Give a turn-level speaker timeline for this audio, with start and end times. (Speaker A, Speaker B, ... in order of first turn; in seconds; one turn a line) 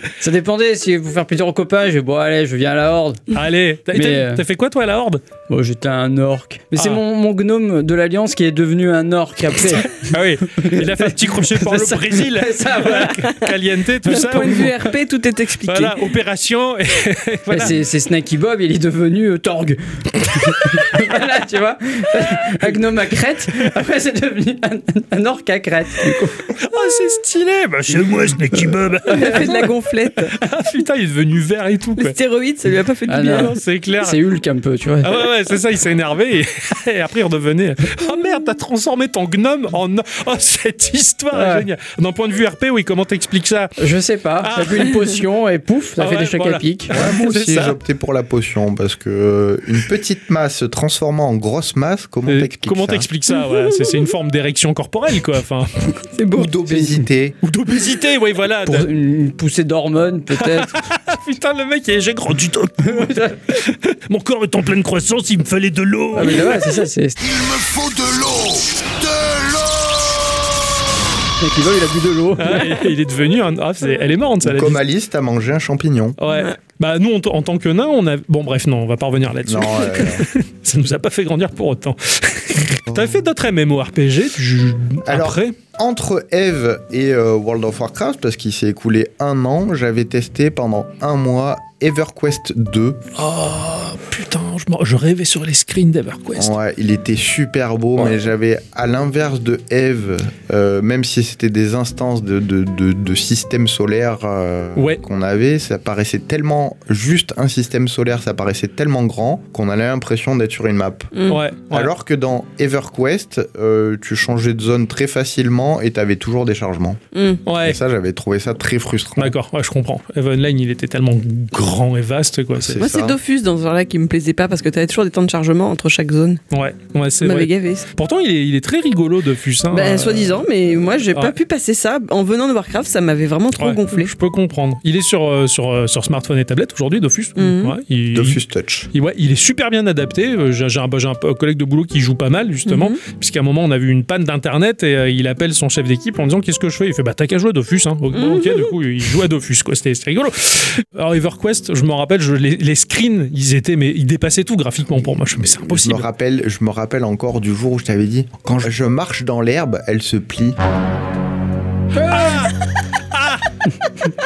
Speaker A: 0.2-3.2
Speaker B: 3.3-5.2
Speaker A: 3.9-4.4
Speaker A: 5.5-13.3
Speaker B: 6.8-7.0
Speaker B: 9.8-14.7
Speaker C: 14.1-16.0
Speaker A: 14.1-14.7
Speaker B: 15.6-17.8
Speaker A: 17.5-26.4
Speaker B: 26.5-32.1
Speaker C: 29.1-30.4
Speaker C: 32.0-33.6
Speaker A: 33.1-35.2
Speaker B: 33.3-34.2
Speaker B: 35.0-43.7
Speaker A: 41.3-41.7
Speaker A: 43.8-46.9
Speaker B: 44.4-45.0
Speaker B: 46.0-47.8
Speaker D: 46.9-53.1
Speaker B: 52.3-55.9
Speaker C: 56.1-56.8
Speaker D: 56.3-57.4
Speaker B: 57.4-58.9
Speaker A: 58.6-60.7
Speaker B: 60.4-66.8
Speaker A: 62.8-63.4
Speaker A: 66.1-67.2
Speaker E: 67.2-70.3
Speaker A: 71.4-72.8
Speaker B: 72.4-74.8
Speaker D: 74.4-76.2
Speaker B: 76.2-85.5
Speaker D: 79.4-80.3
Speaker D: 82.9-83.2
Speaker D: 85.0-93.0
Speaker B: 93.1-96.5
Speaker D: 96.3-111.1
Speaker B: 104.8-105.0
Speaker C: 111.1-111.4
Speaker B: 111.3-111.9
Speaker D: 111.7-117.0
Speaker C: 117.1-117.4
Speaker B: 117.5-117.8
Speaker D: 117.6-119.3
Speaker B: 119.2-122.8
Speaker D: 122.5-123.2
Speaker C: 122.8-126.4
Speaker B: 126.5-131.3
Speaker C: 127.2-127.8
Speaker C: 129.7-134.1
Speaker B: 133.5-138.4
Speaker C: 137.4-137.7
Speaker D: 138.1-138.9
Speaker B: 138.9-156.1
Speaker C: 142.7-143.0
Speaker C: 148.1-148.6
Speaker D: 155.4-160.6
Speaker B: 162.0-162.5
Speaker B: 163.1-163.4